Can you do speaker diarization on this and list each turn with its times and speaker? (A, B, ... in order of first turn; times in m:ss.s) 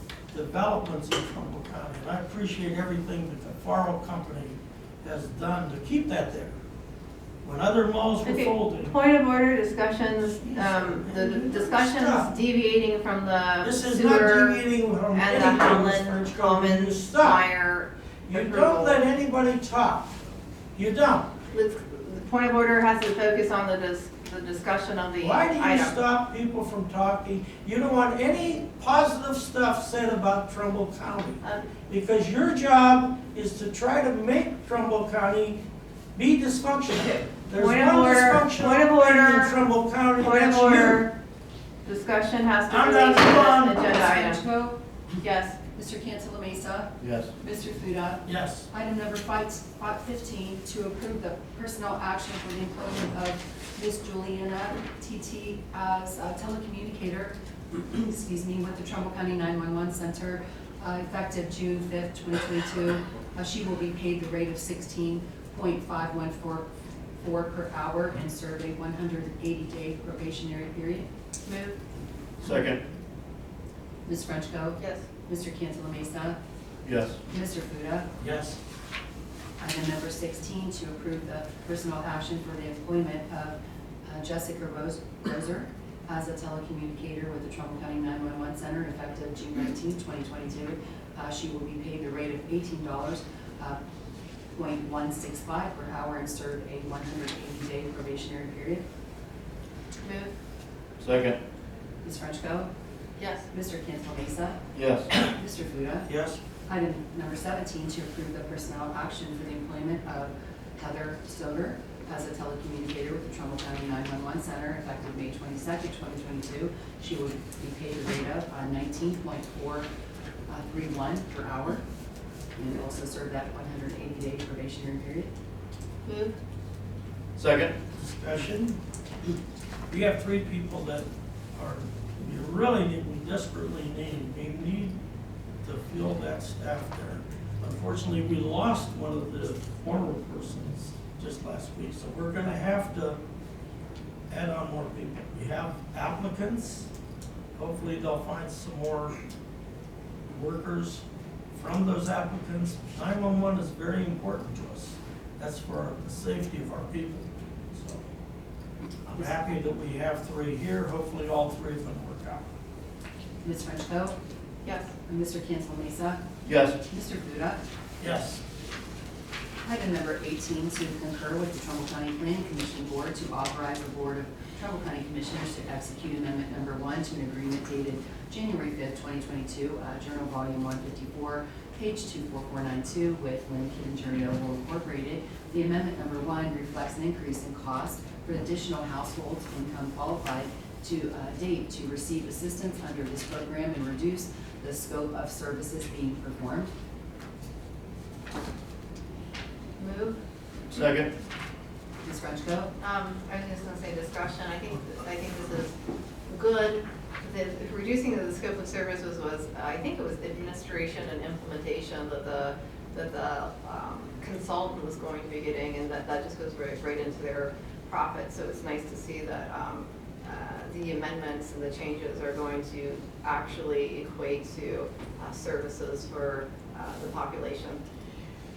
0:00.3-0:06.6 A
0:07.4-0:09.0 A
0:08.3-0:19.0 B
0:10.3-0:12.3 A
0:13.6-0:17.4 A
0:18.3-0:20.1 A
0:20.8-0:21.3 A
0:21.5-0:26.0 B
0:25.2-0:35.6 A
0:31.4-0:31.7 B
0:36.2-0:41.0 A
0:37.5-0:39.6 B
0:40.2-0:41.1 B
0:41.8-0:44.4 B
0:42.7-0:43.8 A
0:43.8-0:44.8 C
0:45.2-0:45.6 B
0:45.7-1:06.7 C
0:47.0-0:47.3 D
0:48.2-0:48.7 A
1:07.2-1:11.1 C
1:11.5-1:11.8 B
1:12.4-1:12.8 D
1:14.1-1:16.4 C
1:14.8-1:15.0 B
1:16.8-1:17.2 D
1:17.3-1:18.1 C
1:18.2-1:18.6 A
1:19.6-1:33.8 C
1:34.5-1:38.8 C
1:40.0-1:40.3 B
1:41.0-1:41.4 D
1:42.0-1:42.7 C
1:43.2-1:43.5 B
1:43.5-1:46.1 C
1:44.8-1:45.1 D
1:46.1-1:46.4 A
1:46.7-1:59.9 C
2:00.5-2:01.8 C
2:02.6-2:05.3 C
2:06.0-2:06.3 B
2:07.4-2:07.8 D
2:08.0-2:08.8 A
2:09.9-2:15.0 A
2:15.6-2:23.2 A
2:24.3-2:26.9 A
2:27.6-2:29.2 A
2:30.3-2:38.1 A
2:39.1-2:42.5 A
2:43.4-2:44.2 C
2:44.6-2:44.9 B
2:45.0-2:46.2 C
2:46.4-2:46.8 D
2:46.8-2:47.6 C
2:48.0-2:48.4 A
2:49.6-3:16.7 C
3:19.8-3:20.2 B
3:20.7-3:21.1 D
3:22.0-3:22.7 C
3:22.8-3:25.7 B
3:26.3-3:47.8 B